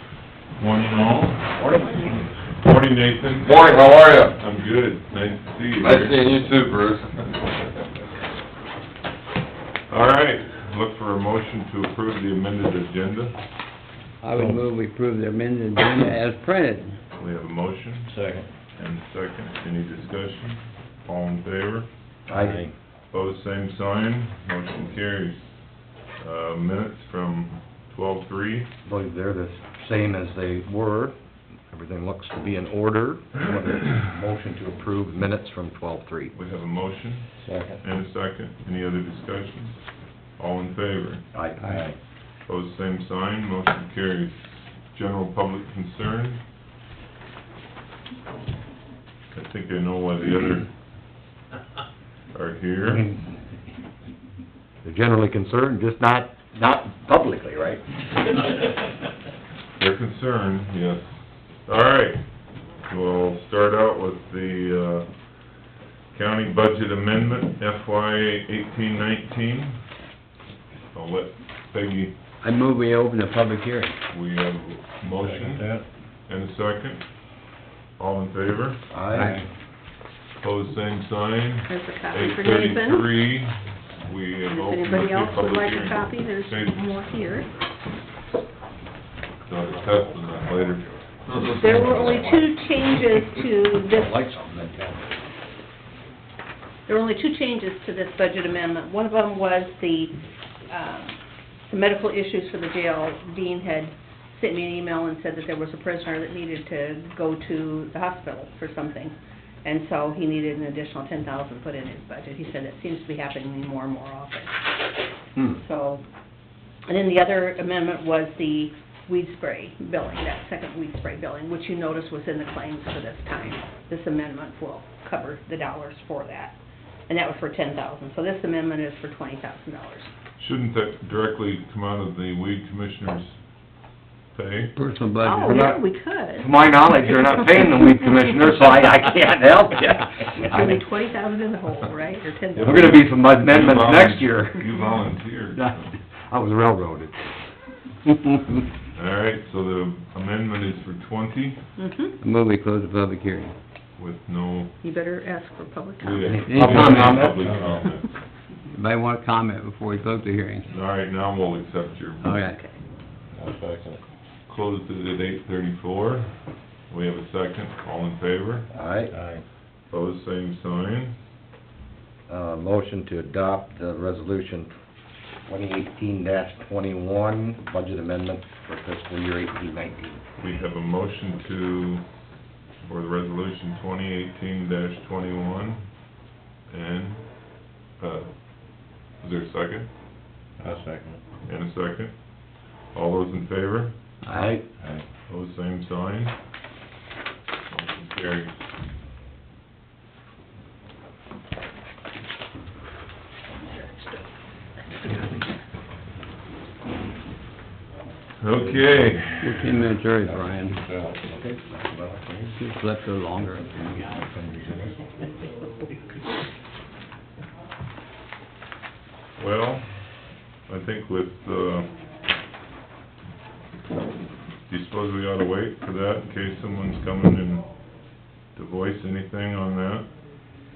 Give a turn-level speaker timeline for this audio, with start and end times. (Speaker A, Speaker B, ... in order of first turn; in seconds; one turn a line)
Speaker A: 0.6-1.7
Speaker B: 1.6-2.3
Speaker A: 2.6-3.8
Speaker C: 3.4-4.4
Speaker A: 4.3-6.2
Speaker C: 5.7-7.1
Speaker A: 9.9-13.4
Speaker D: 14.2-16.9
Speaker A: 17.1-18.2
Speaker E: 18.1-18.5
Speaker A: 18.7-21.9
Speaker B: 22.3-22.7
Speaker A: 23.1-28.7
Speaker B: 28.9-36.3
Speaker A: 36.3-41.2
Speaker E: 37.4-37.8
Speaker B: 41.3-42.0
Speaker D: 41.6-41.9
Speaker A: 42.4-46.4
Speaker A: 49.3-50.7
Speaker A: 52.3-53.1
Speaker B: 54.8-57.9
Speaker A: 59.8-62.3
Speaker A: 62.8-69.8
Speaker A: 70.9-72.2
Speaker D: 72.4-74.0
Speaker A: 74.1-75.7
Speaker E: 75.2-75.8
Speaker A: 76.2-77.2
Speaker A: 78.0-78.8
Speaker B: 78.9-79.4
Speaker E: 79.1-79.5
Speaker A: 80.4-86.8
Speaker F: 81.7-83.1
Speaker F: 84.5-87.5
Speaker A: 89.5-91.0
Speaker C: 91.3-91.6
Speaker B: 91.3-92.5
Speaker F: 91.6-94.2
Speaker B: 93.9-95.1
Speaker F: 96.9-114.6
Speaker F: 115.6-116.0
Speaker F: 116.9-130.1
Speaker A: 130.4-133.5
Speaker A: 134.3-134.7
Speaker D: 134.7-135.8
Speaker F: 135.2-138.3
Speaker B: 135.5-135.7
Speaker B: 136.4-140.8
Speaker F: 140.4-143.0
Speaker A: 142.6-145.9
Speaker B: 142.6-144.6
Speaker B: 145.5-147.5
Speaker A: 148.9-151.6
Speaker F: 151.8-152.2
Speaker D: 152.2-153.5
Speaker A: 154.0-154.8
Speaker F: 154.8-156.4
Speaker A: 156.0-158.1
Speaker B: 156.3-157.5
Speaker D: 156.5-157.4
Speaker D: 158.7-160.7
Speaker A: 160.7-162.3
Speaker D: 162.2-162.6
Speaker F: 162.4-162.8
Speaker E: 163.4-164.0
Speaker A: 164.5-168.7
Speaker B: 168.7-169.2
Speaker E: 169.1-169.4
Speaker A: 169.9-171.2
Speaker B: 172.3-174.7
Speaker B: 175.4-180.2
Speaker A: 180.4-182.1
Speaker A: 182.8-186.0
Speaker A: 186.7-189.9
Speaker E: 190.6-191.2
Speaker A: 191.4-194.0
Speaker B: 194.2-194.7
Speaker A: 195.3-196.4
Speaker A: 197.7-198.5
Speaker F: 203.6-204.3
Speaker F: 204.9-205.4
Speaker A: 208.4-209.9
Speaker D: 209.4-210.8
Speaker B: 210.2-212.5
Speaker D: 212.5-214.2
Speaker B: 214.0-215.0
Speaker A: 219.4-221.9
Speaker A: 224.7-227.7
Speaker A: 228.5-230.1